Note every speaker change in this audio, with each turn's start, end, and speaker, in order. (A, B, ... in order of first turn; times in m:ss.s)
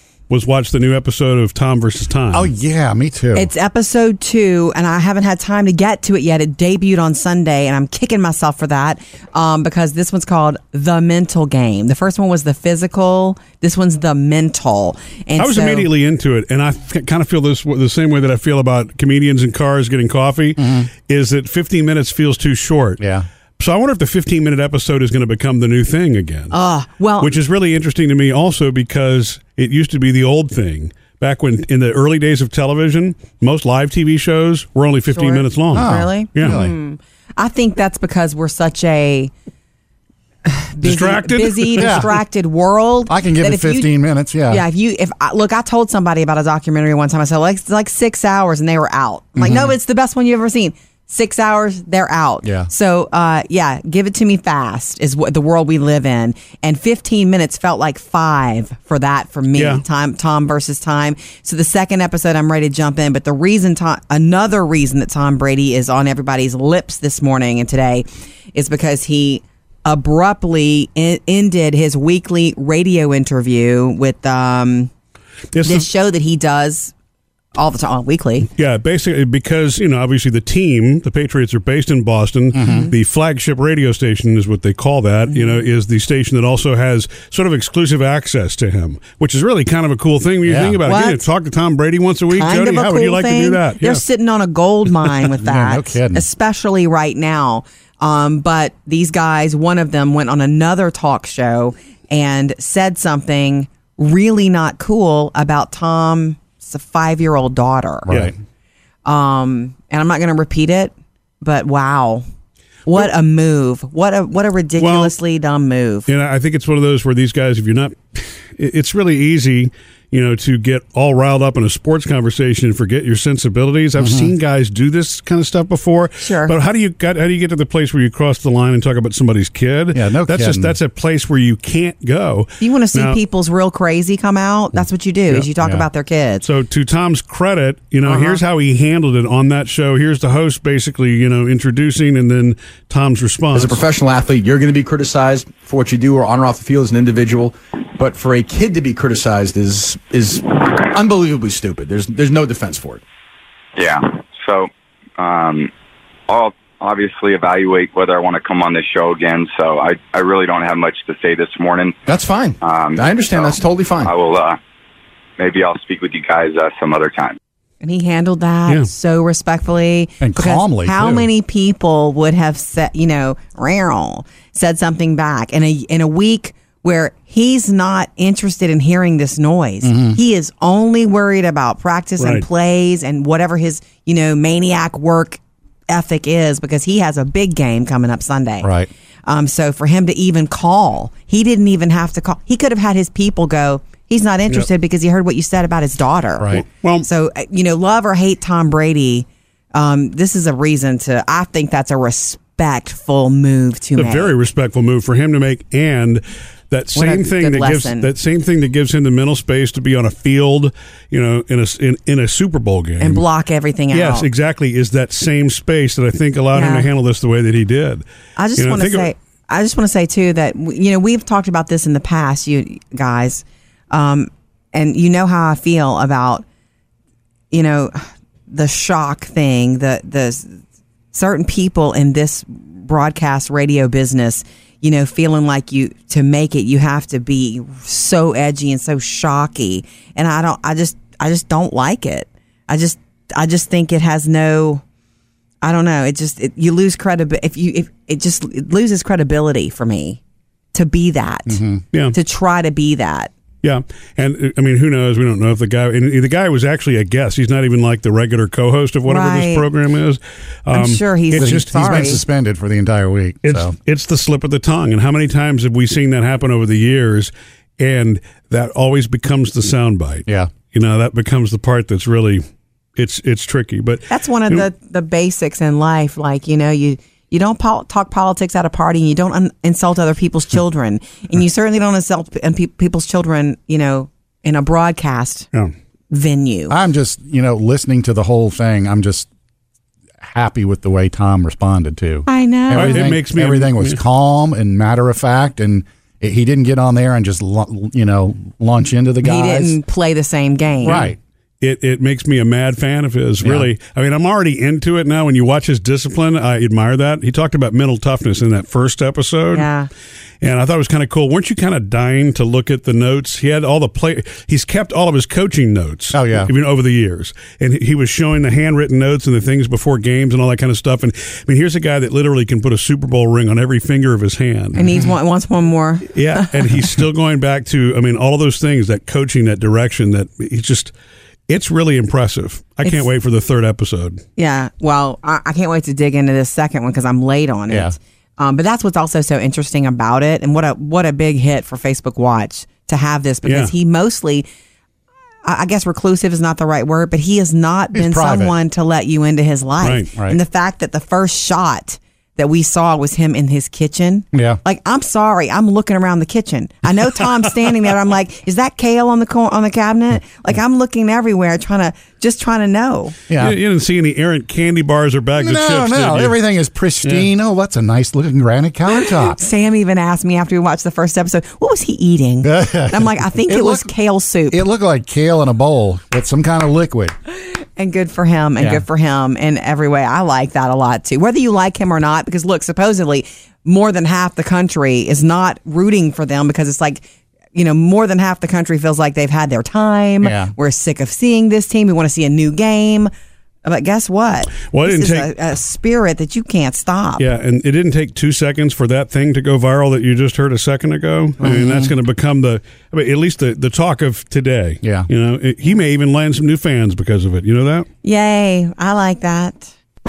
0:00.3-0:02.5 A
0:02.3-0:03.5 B
0:03.3-0:15.9 C
0:15.4-0:23.0 A
0:20.6-0:20.9 B
0:23.0-0:23.2 B
0:23.6-0:26.6 A
0:26.5-0:27.3 C
0:27.2-0:36.6 A
0:35.1-0:39.3 C
0:35.7-0:36.7 B
0:40.4-0:43.9 C
0:40.8-0:42.1 A
0:41.8-0:42.1 B
0:43.1-0:44.6 B
0:44.5-1:14.9 C
0:49.4-0:49.7 B
0:52.4-0:52.7 B
0:59.5-0:59.8 A
1:15.5-1:15.9 A
1:15.6-1:16.9 C
1:17.5-1:18.5 C
1:18.5-1:34.0 A
1:22.5-1:22.9 B
1:22.6-1:22.9 C
1:25.3-1:25.6 C
1:30.4-1:30.8 B
1:30.8-1:31.3 C
1:32.3-1:48.2 C
1:35.4-1:36.2 B
1:49.0-1:52.2 C
1:52.8-1:56.1 C
1:54.8-1:55.1 A
1:56.1-2:13.2 A
2:04.0-2:04.3 B
2:06.2-2:06.5 C
2:09.9-2:10.8 B
2:12.6-2:16.4 C
2:15.6-2:15.8 B
2:16.4-2:23.8 A
2:18.0-2:18.4 C
2:23.5-2:33.0 D
2:33.8-2:35.7 E
2:36.3-2:42.0 E
2:42.0-2:44.2 D
2:42.6-2:44.6 E
2:45.4-2:47.4 E
2:47.8-3:08.7 C
2:50.2-2:51.2 B
2:59.8-3:00.2 B
3:02.2-3:02.4 A
3:08.6-3:08.9 B
3:09.2-3:24.3 C
3:16.4-3:16.6 B
3:16.5-3:17.1 A
3:24.0-3:33.2 A
3:26.9-3:28.1 C
3:33.0-3:34.3 C
3:33.9-3:38.0 A
3:36.5-3:36.9 C
3:38.4-3:46.4 C
3:38.6-3:39.1 A
3:47.5-3:48.0 C
3:48.5-3:50.6 C
3:51.1-4:04.8 C
4:05.6-4:10.2 C
4:10.7-4:11.6 C
4:11.5-4:11.8 B
4:12.1-4:13.3 C
4:13.6-4:22.2 A
4:19.0-4:19.7 C
4:20.7-4:22.2 C
4:21.4-4:23.7 B
4:23.4-4:32.4 A
4:33.0-4:34.6 A
4:34.1-4:45.5 C
4:46.1-4:46.8 C
4:46.7-4:49.3 B
4:50.2-4:59.8 B
4:52.3-4:53.1 C
4:52.7-4:54.0 A
4:59.2-5:01.1 C
5:00.8-5:01.2 B
5:00.8-5:09.6 A
5:03.4-5:03.7 B
5:09.5-5:09.9 C
5:10.4-5:24.9 A
5:16.1-5:16.5 B
5:24.8-5:26.8 C
5:26.1-5:30.9 A
5:31.5-5:34.2 A
5:34.4-5:44.4 C
5:37.7-5:37.9 B
5:43.4-5:43.7 A
5:45.4-6:03.2 C
5:47.9-5:48.5 B
5:49.8-5:50.0 A
6:03.3-6:03.5 B
6:03.4-6:06.4 A
6:05.4-6:09.4 B
6:07.0-6:07.3 A
6:08.9-6:14.6 C
6:12.4-6:13.9 B
6:14.5-6:17.1 B
6:17.4-6:33.1 C
6:18.6-6:18.8 B
6:30.2-6:30.5 B
6:33.6-6:37.2 C
6:34.6-6:35.3 A
6:37.2-6:47.8 A
6:41.4-6:41.9 B
6:44.8-6:45.1 B
6:48.0-6:49.7 C